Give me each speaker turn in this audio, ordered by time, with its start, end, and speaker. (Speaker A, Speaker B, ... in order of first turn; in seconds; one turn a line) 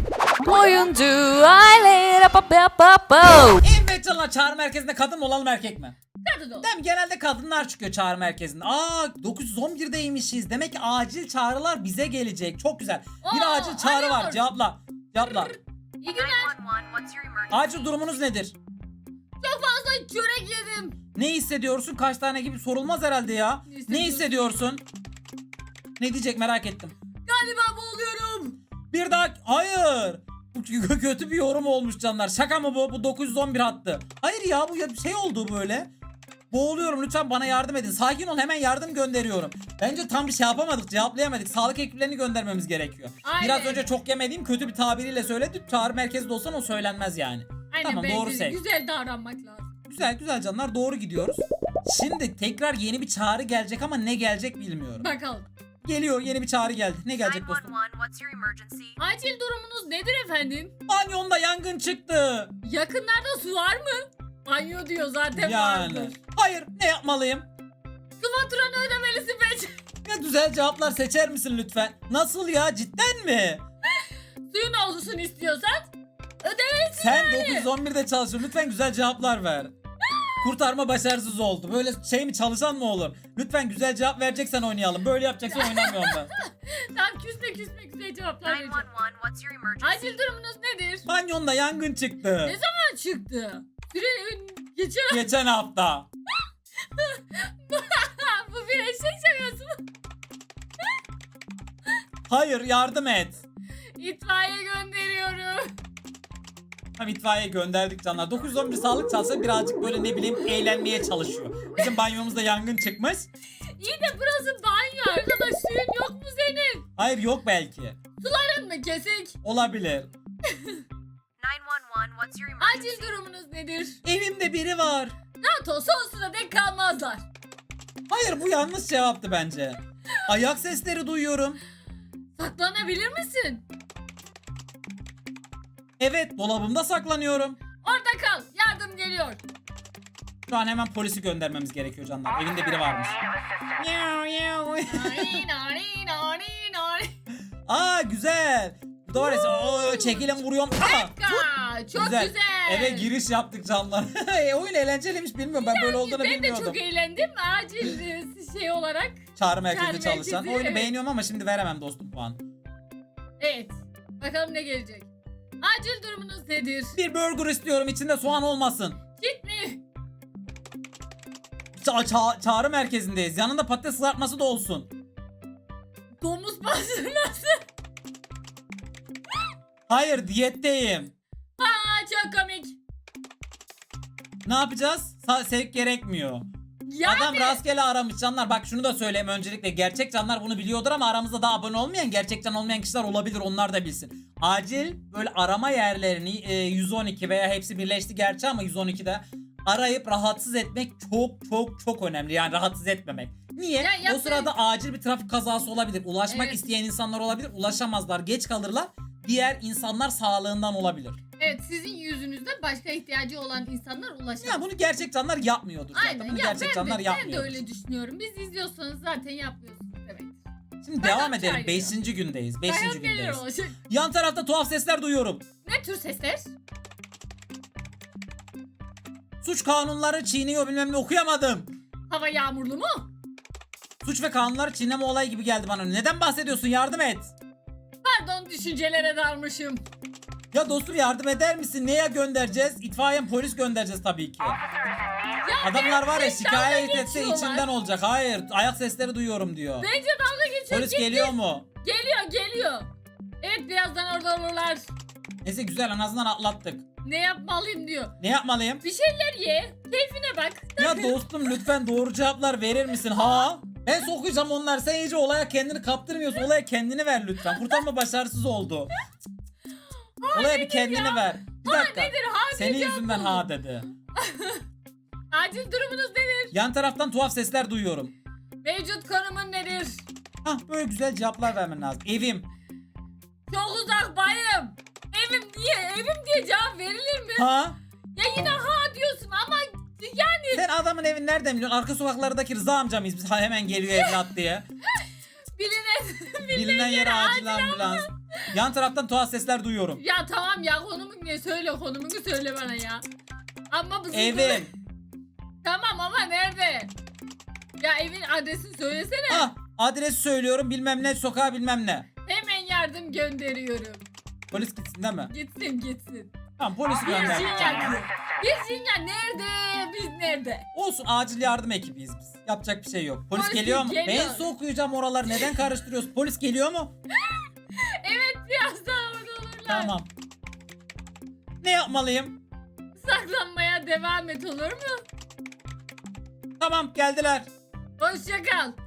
Speaker A: 0.4-3.6
Speaker B: 3.6-6.0
Speaker C: 6.2-6.7
Speaker B: 6.6-15.5
Speaker C: 13.2-14.4
Speaker C: 15.2-16.5
Speaker D: 16.1-17.8
Speaker B: 17.5-18.5
Speaker C: 19.4-21.0
Speaker B: 21.1-24.8
Speaker C: 23.7-24.3
Speaker B: 26.0-26.9
Speaker C: 27.2-28.6
Speaker B: 28.9-35.9
Speaker B: 36.5-48.6
Speaker C: 43.2-43.8
Speaker C: 47.7-49.7
Speaker B: 49.9-55.1
Speaker C: 55.0-55.5
Speaker B: 55.8-57.7
Speaker D: 57.2-59.0
Speaker C: 59.0-60.7
Speaker B: 60.9-62.5
Speaker C: 62.6-66.1
Speaker B: 65.3-67.5
Speaker C: 68.2-69.8
Speaker B: 70.0-73.6
Speaker C: 74.0-75.9
Speaker C: 76.4-77.7
Speaker B: 77.0-79.7
Speaker C: 80.1-80.4
Speaker B: 80.4-86.3
Speaker C: 85.5-88.9
Speaker D: 88.4-90.2
Speaker C: 89.8-91.1
Speaker B: 91.0-92.6
Speaker C: 92.4-95.2
Speaker B: 95.1-96.1
Speaker C: 97.0-99.8
Speaker B: 102.3-103.4
Speaker C: 104.0-105.7
Speaker B: 107.0-113.3
Speaker C: 113.8-116.9
Speaker B: 117.0-118.0
Speaker C: 118.2-119.3
Speaker B: 119.4-120.1
Speaker C: 120.5-120.8
Speaker D: 121.4-123.1
Speaker C: 122.6-124.0
Speaker B: 124.0-125.2
Speaker C: 125.4-127.2
Speaker B: 128.1-131.6
Speaker C: 132.3-133.6
Speaker B: 136.0-137.6
Speaker C: 137.8-139.4
Speaker B: 140.5-143.2
Speaker B: 143.8-145.4
Speaker C: 144.9-147.1
Speaker B: 147.7-156.8
Speaker C: 149.1-153.1
Speaker C: 155.5-160.9
Speaker B: 159.3-162.4
Speaker C: 163.4-165.1
Speaker C: 165.6-167.0
Speaker B: 166.9-169.0
Speaker C: 169.2-169.8
Speaker B: 171.8-174.9
Speaker C: 176.2-177.6
Speaker B: 179.9-181.1
Speaker C: 181.6-182.8
Speaker B: 184.4-186.5
Speaker C: 186.9-187.6
Speaker B: 187.0-211.2
Speaker C: 203.8-204.5
Speaker C: 206.3-206.6
Speaker C: 211.4-214.6
Speaker B: 214.4-217.6
Speaker C: 215.9-220.3
Speaker B: 220.8-225.4
Speaker C: 221.0-221.9
Speaker C: 222.7-223.8
Speaker C: 225.6-226.5
Speaker B: 229.4-231.7
Speaker C: 232.1-233.1
Speaker B: 234.0-237.3
Speaker C: 238.0-239.8
Speaker B: 240.5-244.6
Speaker C: 245.4-247.7
Speaker B: 245.6-249.9
Speaker C: 249.8-252.9
Speaker B: 250.7-251.7
Speaker C: 253.4-254.8
Speaker B: 255.4-256.8
Speaker C: 257.0-258.1
Speaker B: 258.2-258.8
Speaker C: 258.8-261.2
Speaker B: 260.8-268.9
Speaker C: 263.1-263.5
Speaker C: 270.2-273.4
Speaker B: 270.3-273.9
Speaker C: 274.2-274.6
Speaker C: 275.3-276.5
Speaker B: 276.5-278.1
Speaker C: 278.6-280.0
Speaker B: 280.4-282.4
Speaker C: 283.5-287.5
Speaker B: 287.4-287.8
Speaker C: 288.1-290.6
Speaker B: 290.5-294.7
Speaker C: 294.9-298.5
Speaker B: 296.5-300.0
Speaker C: 300.0-303.0
Speaker C: 303.7-304.7
Speaker B: 304.1-304.7
Speaker C: 305.6-306.9
Speaker C: 307.8-309.5
Speaker B: 309.3-312.1
Speaker C: 312.2-314.0
Speaker B: 314.5-315.3
Speaker C: 315.3-316.3
Speaker B: 316.6-318.0
Speaker C: 317.0-320.6
Speaker B: 320.7-326.9
Speaker C: 323.3-324.5
Speaker C: 327.2-329.9
Speaker B: 329.7-330.1
Speaker B: 331.6-332.4
Speaker C: 332.9-335.0
Speaker B: 336.6-337.5
Speaker C: 338.0-338.8